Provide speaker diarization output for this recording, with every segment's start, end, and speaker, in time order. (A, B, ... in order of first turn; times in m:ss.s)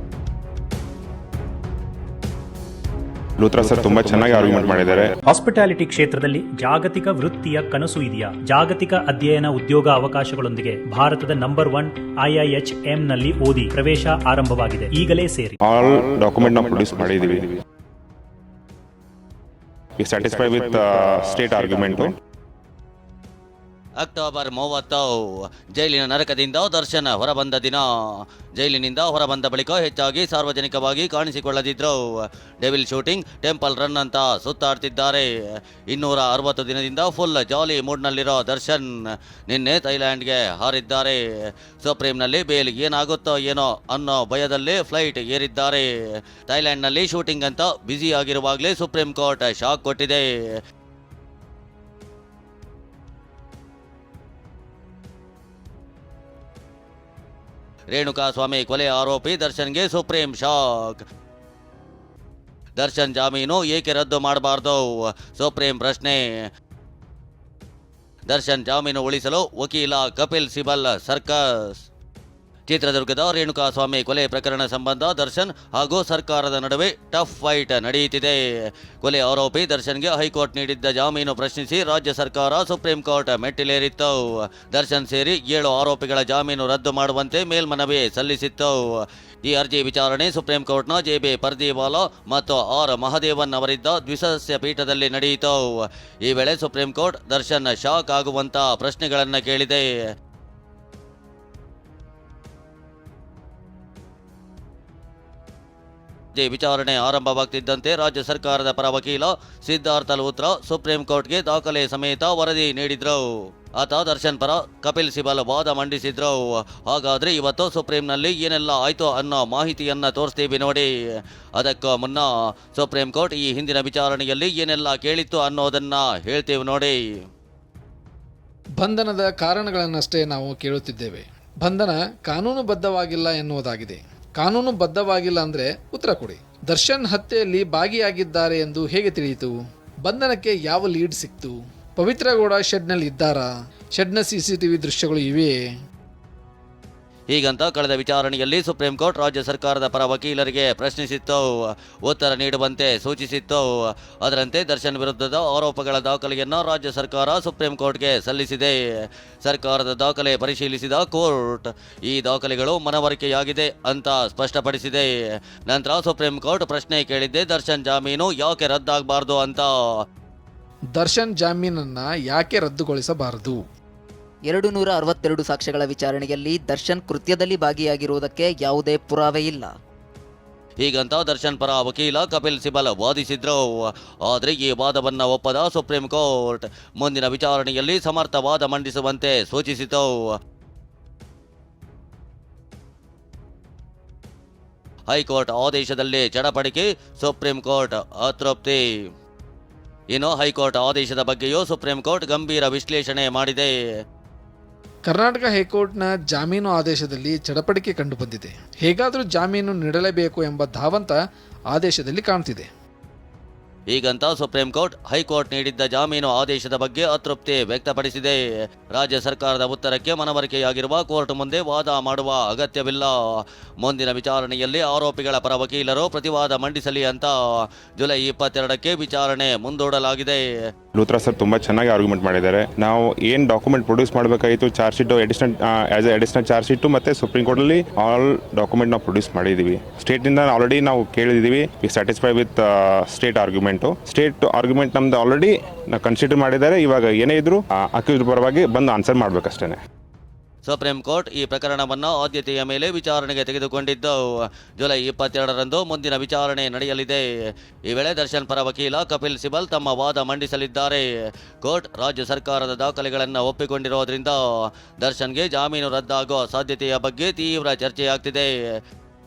0:03.4-0:05.1 A
0:05.3-0:15.6 B
0:15.6-0:17.5 A
0:20.0-0:22.1 A
0:24.0-0:27.8 C
0:28.6-0:32.0 C
0:32.6-0:35.3 C
0:35.9-0:38.9 C
0:39.5-0:41.2 C
0:41.8-0:45.9 C
0:46.5-0:50.3 C
0:57.9-1:01.0 C
1:02.8-1:06.2 C
1:08.3-1:11.8 C
1:12.7-1:18.4 C
1:19.0-1:28.8 C
1:29.4-1:39.8 C
1:46.4-1:53.2 C
1:53.8-2:00.9 C
2:01.6-2:07.0 C
2:08.8-2:19.5 D
2:20.0-2:25.5 D
2:27.3-2:31.5 C
2:32.0-2:33.7 C
2:34.2-2:38.8 C
2:39.4-2:45.1 C
2:45.7-2:49.7 C
2:51.0-2:53.6 D
2:54.5-2:59.8 E
3:00.8-3:03.7 C
3:04.3-3:10.2 C
3:15.1-3:18.8 C
3:20.1-3:23.7 C
3:25.1-3:31.2 D
3:31.7-3:32.7 D
3:33.9-3:38.4 C
3:38.9-3:43.1 C
3:43.8-3:47.3 C
3:48.0-3:50.4 C
3:51.0-4:09.8 A
4:10.6-4:14.2 C
4:14.8-4:17.2 C
4:17.9-4:21.0 C
4:21.6-4:24.4 C
4:25.0-4:28.5 C